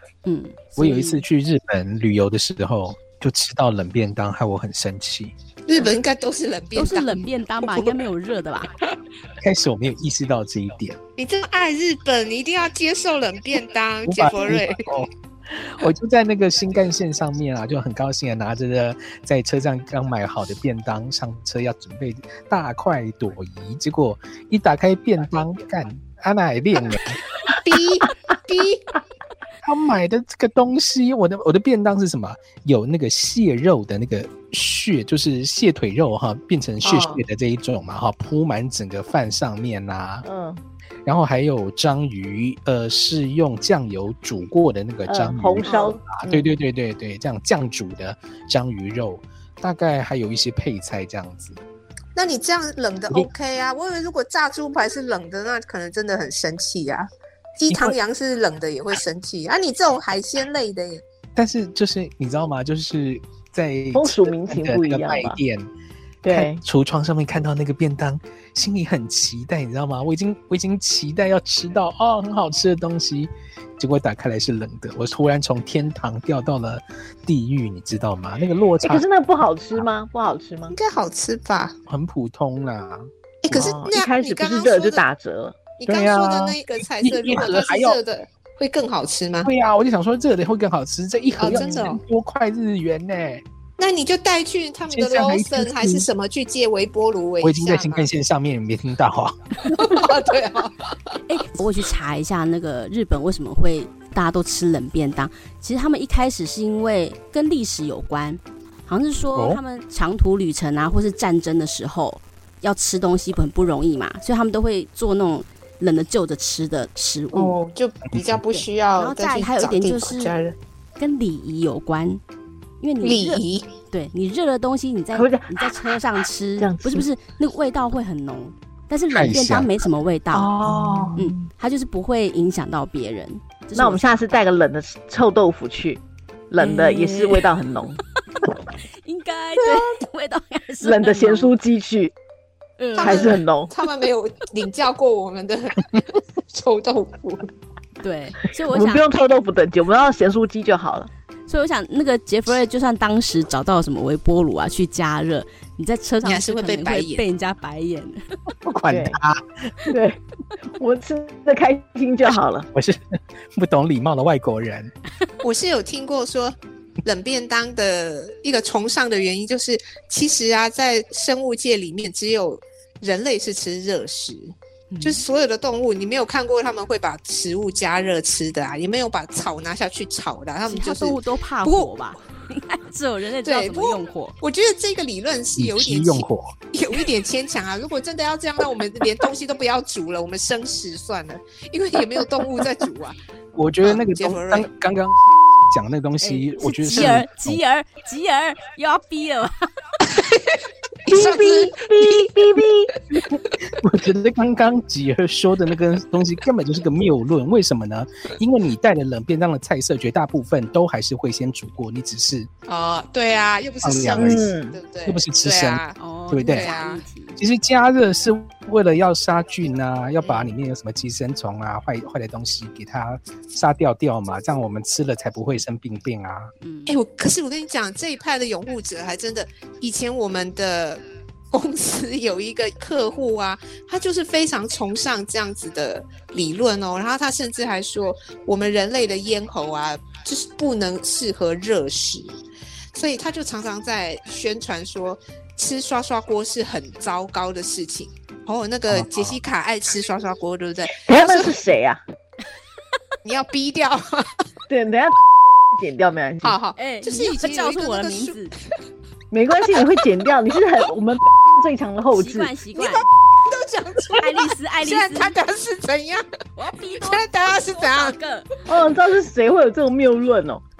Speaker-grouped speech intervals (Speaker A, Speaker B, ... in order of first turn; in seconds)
Speaker A: 0.2-1.2, 6.8-8.7, 101.3-117.6, 119.0-120.3, 121.0-122.2, 122.8-130.5, 131.2-134.2, 136.6-137.5, 139.0-141.5, 142.8-143.4, 148.0-149.1, 151.5-158.5, 174.9-175.2, 180.7-184.3, 196.2-199.7, 216.0-217.4, 226.6-226.9, 256.8-258.5, 262.1-263.1, 264.1-265.4, 266.6-268.5
Speaker B: 0.8-5.3, 9.4-11.0, 14.1-27.2, 29.6-40.2, 41.0-51.6, 57.7-58.0, 61.3-65.7, 66.3-79.0, 81.9-83.7, 85.9-88.0, 89.4-93.4, 94.9-96.0, 97.4-100.0, 109.3-109.6, 118.1-118.4, 129.1-129.8, 158.6-159.7, 162.7-164.9, 185.6-186.5, 193.5-197.6, 203.6-212.5, 213.8-214.5, 215.1-216.7, 217.4-226.5, 248.9-249.4
Speaker C: 5.7-7.9, 11.2-14.8, 27.5-28.9, 36.8-37.2, 45.6-46.5, 52.1-61.0, 80.7-81.8, 83.4-85.0, 85.8-89.5, 91.4-92.0, 93.8-98.1, 99.7-100.9, 117.3-120.5, 123.0-123.7, 130.7-131.2, 142.9-147.5, 156.2-157.2, 165.4-181.9, 183.4-193.2, 193.8-194.7, 200.1-202.6, 212.7-217.0, 220.2-220.6, 226.9-231.0, 231.5-242.4, 242.9-251.6, 253.2-254.4, 256.4-258.4, 262.8-266.2, 267.0-268.1
Speaker D: 40.2-40.6, 45.1-46.0, 63.9-65.4, 66.2-66.6, 78.8-80.7, 83.5-85.6, 125.1-125.8, 126.6-127.1, 130.3-131.4, 133.8-138.0, 139.6-139.9, 140.8-142.1, 143.0-143.7, 148.7-151.1, 158.9-159.2, 159.9-160.2, 160.7-162.7, 201.1-202.9, 214.2-214.8, 251.1-252.0, 254.7-255.2, 255.7-256.6, 259.3-262.5, 268.7-270.6